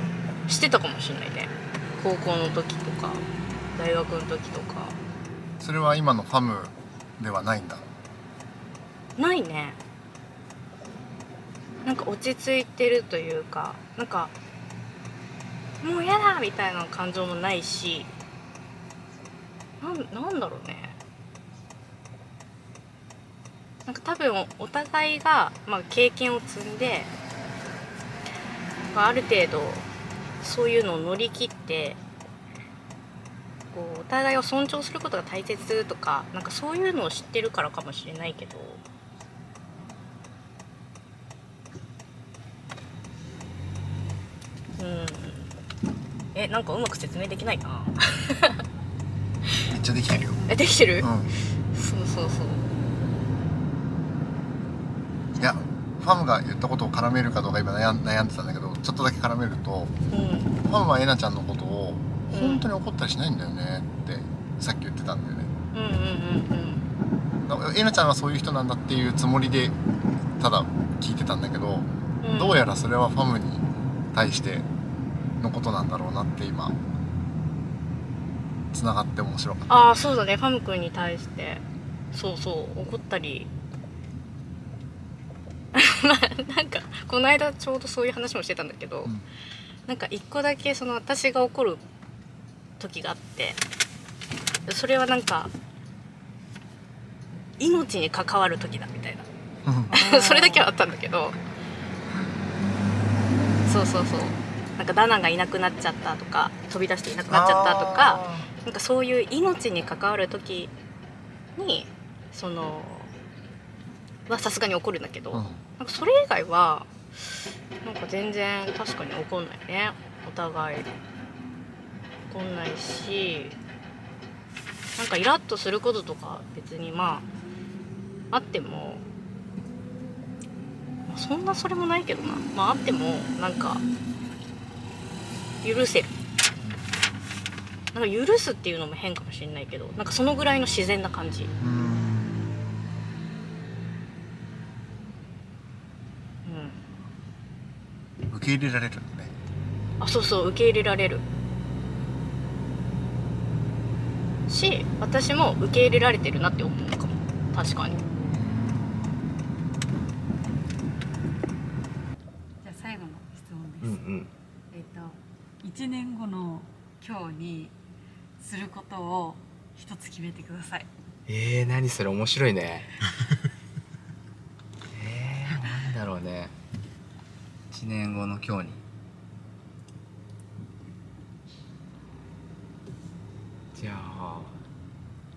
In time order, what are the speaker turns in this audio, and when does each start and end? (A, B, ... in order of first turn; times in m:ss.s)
0:00.5-0:05.0 A
0:05.6-0:07.8 B
0:09.2-0:09.8 A
0:11.8-0:14.3 A
0:15.8-0:18.1 A
0:19.8-0:21.0 A
0:23.8-0:27.1 A
0:28.9-0:29.8 A
0:30.4-0:32.0 A
0:33.7-0:38.8 A
0:44.8-0:45.5 A
0:46.3-0:48.6 A
0:49.7-0:50.4 B
0:50.5-0:51.1 A
0:51.0-0:51.3 B
0:51.7-0:52.6 A
0:55.4-0:59.9 B
1:00.1-1:00.5 A
1:00.6-1:05.5 B
1:02.3-1:02.7 A
1:05.7-1:06.9 A
1:07.4-1:09.8 B
1:10.4-1:14.7 B
1:12.2-1:12.6 A
1:15.4-1:16.8 B
1:18.7-1:19.7 B
1:19.7-1:23.5 A
1:25.7-1:29.1 A
1:29.9-1:31.8 A
1:32.8-1:33.6 A
1:34.7-1:35.5 A
1:37.6-1:39.3 A
1:39.6-1:40.0 B
1:39.9-1:41.4 A
1:40.0-1:40.7 C
1:43.6-1:50.7 A
1:47.3-1:48.5 B
1:51.6-1:53.1 A
1:54.3-1:56.9 A
1:55.3-1:55.6 B
1:57.8-2:00.9 A
2:02.3-2:03.6 A
2:05.0-2:07.3 A
2:08.3-2:09.0 A
2:11.1-2:13.8 A
2:15.6-2:16.2 A
2:16.6-2:17.0 B
2:17.9-2:21.5 A
2:21.6-2:22.6 B
2:26.4-2:26.9 A
2:28.3-2:29.3 B
2:30.0-2:31.2 A
2:34.5-2:38.1 A
2:37.9-2:38.4 C
2:38.3-2:39.1 B
2:42.6-2:44.0 C
2:43.8-2:44.3 D
2:44.7-2:47.7 C
2:48.4-2:50.9 C
2:51.3-2:52.9 D
2:54.9-2:56.5 D
2:57.7-2:58.8 D
3:03.8-3:04.6 D